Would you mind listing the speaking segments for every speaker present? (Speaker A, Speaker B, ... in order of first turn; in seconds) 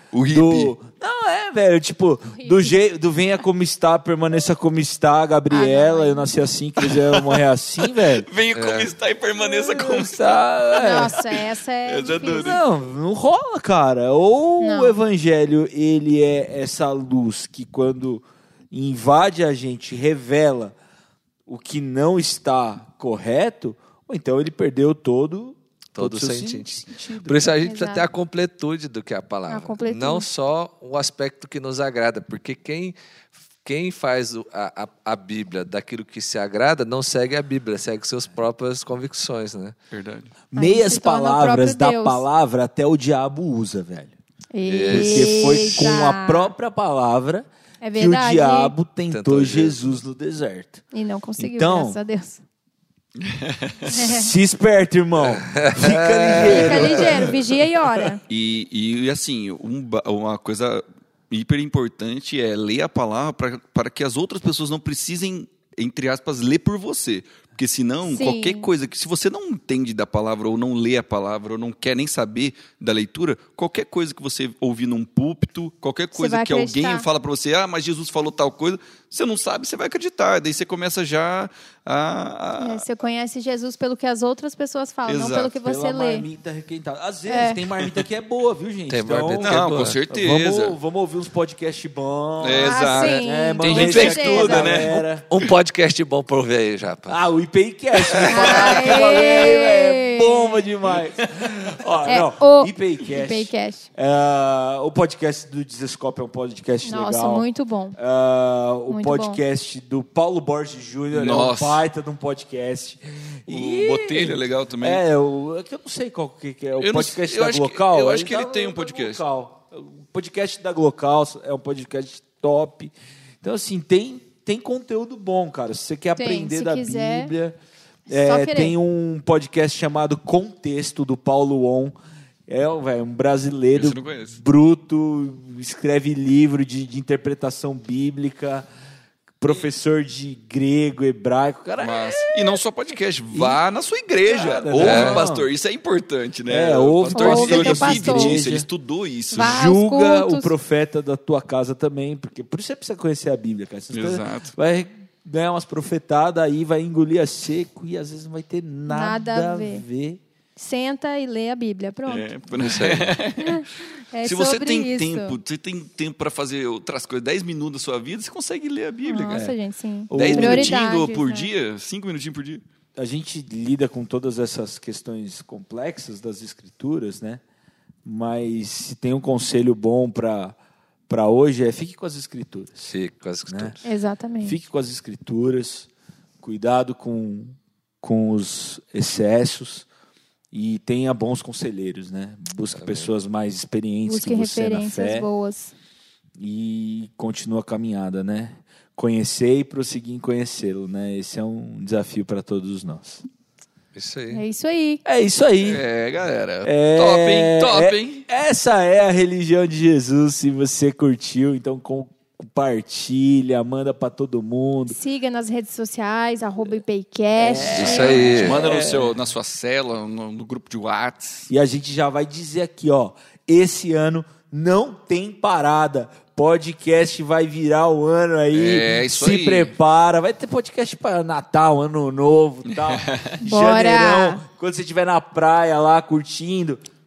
Speaker A: 0.1-0.7, 6.8-7.4, 8.2-12.6, 39.9-40.3, 53.2-54.0, 58.3-82.8, 85.1-85.5, 89.4-90.8, 92.4-95.5, 111.1-111.8, 113.5-115.0, 116.8-119.2, 133.7-134.4, 141.8-149.6, 153.9-154.5, 162.1-163.7, 164.2-169.5, 170.1-172.6, 205.6-208.2, 218.1-221.5, 228.5-229.7, 232.7-233.4
Speaker B: 0.3-8.3, 9.4-11.2, 12.1-20.7, 21.5-27.5, 40.5-44.1, 44.9-50.8, 51.4-52.0, 53.9-57.4, 85.6-95.3, 97.1-127.5, 128.1-131.9, 132.5-138.7, 139.4-142.6, 143.3-143.6, 144.2-145.5, 146.5-148.7, 149.4-160.2, 169.3-169.6, 170.1-170.8, 173.0-177.4, 178.0-180.6, 181.1-182.8, 183.5-183.8, 184.4-185.9, 186.4-189.9, 190.5-195.3, 196.4-203.2, 205.0-205.8, 206.6-214.9, 217.3-219.2, 221.5-236.8
Speaker C: 2.4-2.7, 5.5-6.3, 10.7-12.6, 14.6-15.0, 27.6-28.1, 29.5-30.3, 40.5-42.2, 44.5-46.5, 47.8-48.7, 50.9-52.4, 53.9-54.3, 56.4-58.2, 68.1-68.7, 76.1-77.0, 82.6-86.2, 87.3-87.6, 92.5-94.7, 98.3-100.6, 102.0-103.8, 106.8-108.0, 108.9-109.4, 126.2-127.3, 128.1-128.8, 147.1-148.4, 149.3-150.5, 158.9-159.8, 160.6-162.3, 163.4-165.3, 169.0-171.5, 183.8-184.6, 194.1-195.7, 204.3-205.0, 214.9-218.5, 233.4-234.4
Speaker D: 8.5-8.9, 25.9-32.9, 33.6-39.7, 44.6-46.0, 49.1-50.0, 55.2-57.2, 88.9-90.0, 93.7-97.2, 98.0-98.9, 144.8-145.3, 162.6-163.1, 182.8-183.8, 192.7-193.1, 203.9-204.4, 217.6-218.6